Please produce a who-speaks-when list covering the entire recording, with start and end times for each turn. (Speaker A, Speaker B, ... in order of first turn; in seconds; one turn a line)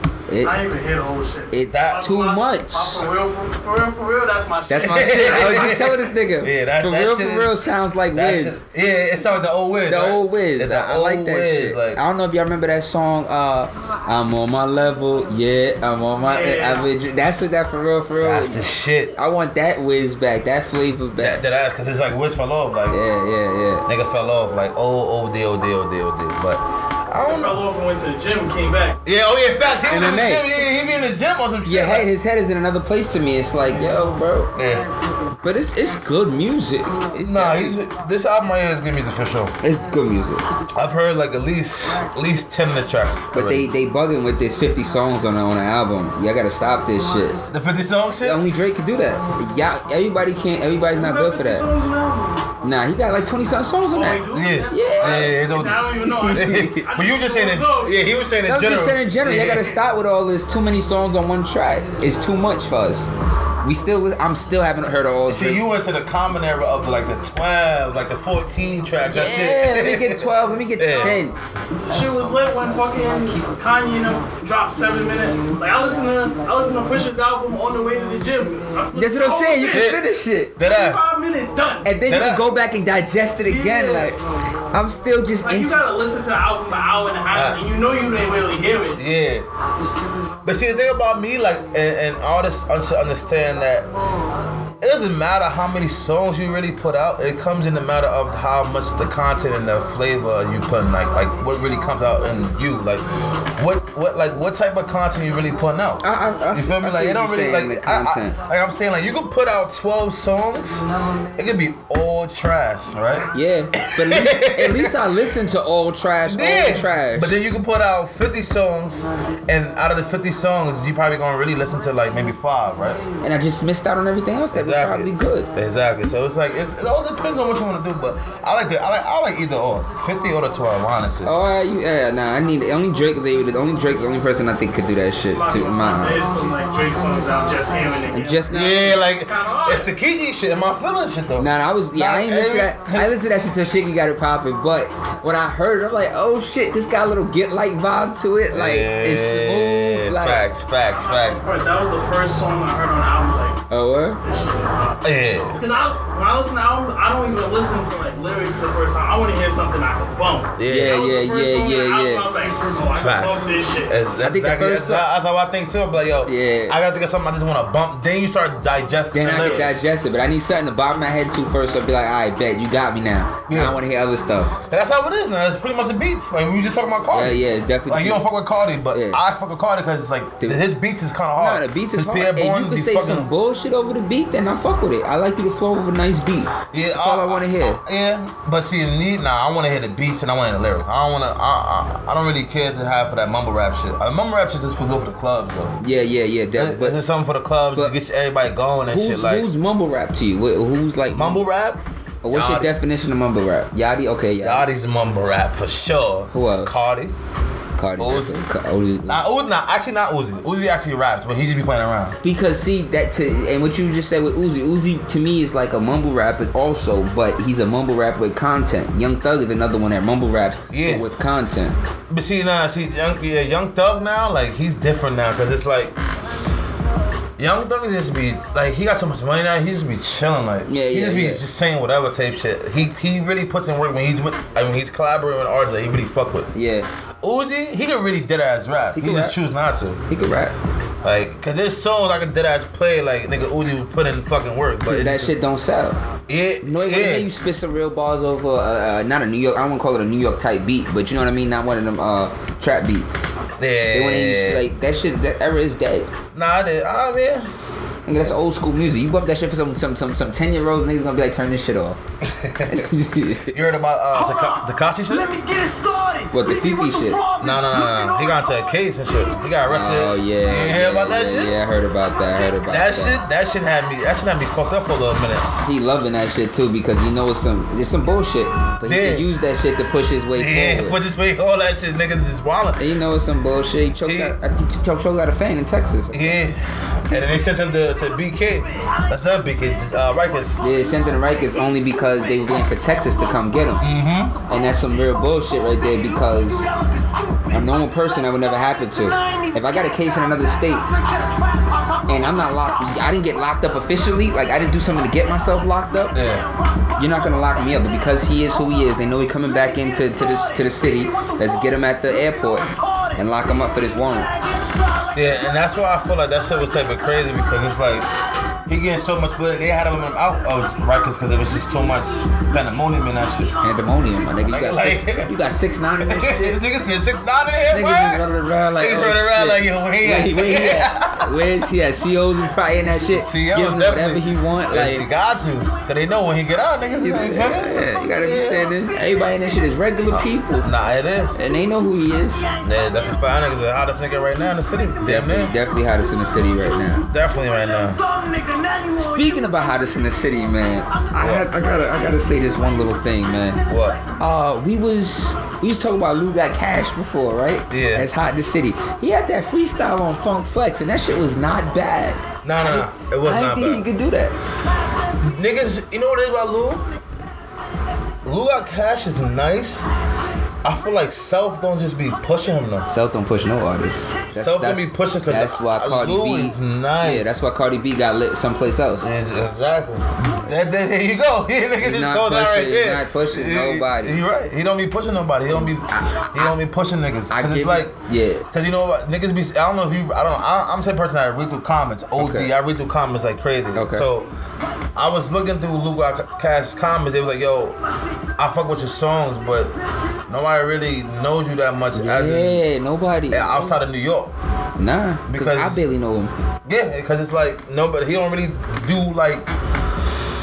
Speaker A: 0.3-0.6
Speaker B: 0.4-5.9
Speaker A: 1.5-3.0
Speaker C: 1.7-2.1
Speaker A: 4.7-8.6
Speaker C: 4.8-7.5
Speaker C: 8.1-12.0
Speaker A: 9.8-18.6
Speaker B: 16.2-16.9
Speaker C: 18.2-19.1
Speaker A: 19.1-21.4
Speaker C: 21.2-23.0
Speaker A: 22.9-23.9
Speaker C: 23.9-27.6
Speaker B: 27.2-29.0
Speaker C: 29.0-32.1
Speaker A: 29.9-30.5
Speaker A: 31.6-34.5
Speaker C: 34.5-34.9
Speaker A: 35.4-37.8
Speaker C: 37.2-39.5
Speaker A: 39.6-40.4
Speaker C: 40.7-43.7
Speaker A: 43.3-47.4
Speaker C: 47.5-48.4
Speaker A: 48.2-51.7
Speaker B: 50.9-52.5
Speaker A: 52.6-55.4
Speaker B: 53.9-58.0
Speaker C: 54.3-59.8
Speaker A: 56.0-56.9
Speaker A: 58.4-65.6
Speaker C: 65.3-71.2
Speaker A: 69.1-71.3
Speaker B: 71.8-79.9
Speaker A: 78.9-80.5
Speaker C: 79.7-80.0
Speaker C: 80.6-81.0
Speaker B: 80.6-81.9
Speaker A: 81.8-84.2
Speaker C: 82.1-82.5
Speaker B: 83.4-84.1
Speaker A: 84.7-85.8
Speaker B: 85.4-89.0
Speaker C: 87.3-87.6
Speaker C: 89.0-89.5
Speaker C: 90.4-93.9
Speaker C: 94.8-113.2
Speaker A: 106.0-108.4
Speaker A: 113.3-117.3
Speaker C: 113.8-115.0
Speaker C: 116.2-123.0
Speaker A: 123.2-125.5
Speaker C: 124.5-131.3
Speaker A: 131.2-136.2
Speaker B: 135.3-139.9
Speaker A: 138.1-138.9
Speaker C: 138.5-143.1
Speaker A: 141.4-150.4
Speaker C: 148.5-151.4
Speaker B: 151.0-153.6
Speaker A: 153.7-154.2
Speaker B: 154.2-163.9
Speaker C: 155.0-155.6
Speaker C: 160.6-161.0
Speaker A: 160.6-162.3
Speaker C: 162.9-169.9
Speaker A: 164.2-165.0
Speaker A: 166.2-166.8
Speaker A: 169.1-174.6
Speaker C: 173.5-173.8
Speaker C: 174.7-183.3
Speaker A: 177.1-178.3
Speaker A: 178.9-179.2
Speaker A: 181.4-187.8
Speaker C: 186.7-195.8
Speaker A: 195.8-197.0
Speaker C: 196.6-199.5
Speaker A: 198.9-201.4
Speaker C: 201.1-202.7
Speaker A: 202.2-204.6
Speaker C: 204.4-207.1
Speaker A: 206.3-206.7
Speaker A: 207.8-209.2
Speaker C: 208.0-208.4
Speaker C: 209.1-212.2
Speaker A: 212.2-221.7
Speaker C: 220.7-221.1
Speaker C: 222.1-225.9
Speaker C: 227.4-236.5
Speaker A: 230.7-231.4
Speaker A: 236.5-236.9
Speaker C: 237.2-240.0
Speaker A: 238.9-239.3
Speaker A: 240.1-240.5
Speaker C: 241.0-245.3
Speaker A: 244.9-246.0
Speaker C: 246.3-247.3
Speaker A: 246.6-253.3
Speaker C: 253.6-254.6
Speaker A: 253.9-256.1
Speaker C: 256.3-257.5
Speaker A: 258.1-262.0
Speaker C: 262.2-262.9
Speaker A: 262.6-263.5
Speaker C: 263.5-265.4
Speaker D: 264.1-268.6
Speaker A: 266.3-267.2
Speaker C: 267.4-271.6
Speaker A: 269.7-273.2
Speaker C: 272.6-275.5
Speaker A: 275.6-281.0
Speaker C: 278.8-279.3
Speaker C: 280.3-282.8
Speaker A: 282.8-286.4
Speaker C: 284.0-284.4
Speaker C: 286.1-290.6
Speaker A: 290.6-293.8
Speaker C: 293.8-294.4
Speaker A: 294.5-296.7
Speaker A: 297.5-300.9
Speaker A: 302.1-306.2
Speaker C: 306.1-306.5
Speaker A: 307.0-314.3
Speaker C: 315.1-318.1
Speaker C: 318.7-323.6
Speaker A: 323.6-326.6
Speaker C: 324.5-325.3
Speaker C: 326.0-328.2
Speaker A: 327.7-335.1
Speaker C: 328.8-331.3
Speaker C: 332.9-338.7
Speaker A: 337.0-340.7
Speaker C: 340.1-341.4
Speaker A: 341.3-342.5
Speaker C: 342.6-345.5
Speaker A: 345.0-347.1
Speaker C: 347.1-348.0
Speaker A: 348.9-353.6
Speaker C: 351.2-351.5
Speaker C: 353.7-354.0
Speaker A: 354.2-364.3
Speaker C: 357.7-358.1
Speaker C: 362.4-363.9
Speaker C: 365.2-366.9
Speaker C: 368.2-369.8
Speaker C: 370.6-372.9
Speaker A: 372.9-379.1
Speaker C: 374.3-377.4
Speaker C: 379.0-387.9
Speaker A: 381.8-384.2
Speaker A: 385.9-386.2
Speaker A: 387.3-388.4
Speaker C: 388.5-394.3
Speaker A: 392.2-392.5
Speaker A: 393.7-394.1
Speaker C: 394.9-397.8
Speaker C: 398.4-399.7
Speaker C: 400.3-402.6
Speaker A: 401.9-403.7
Speaker C: 403.3-404.3
Speaker A: 404.8-406.3
Speaker C: 405.3-405.8
Speaker C: 406.6-409.5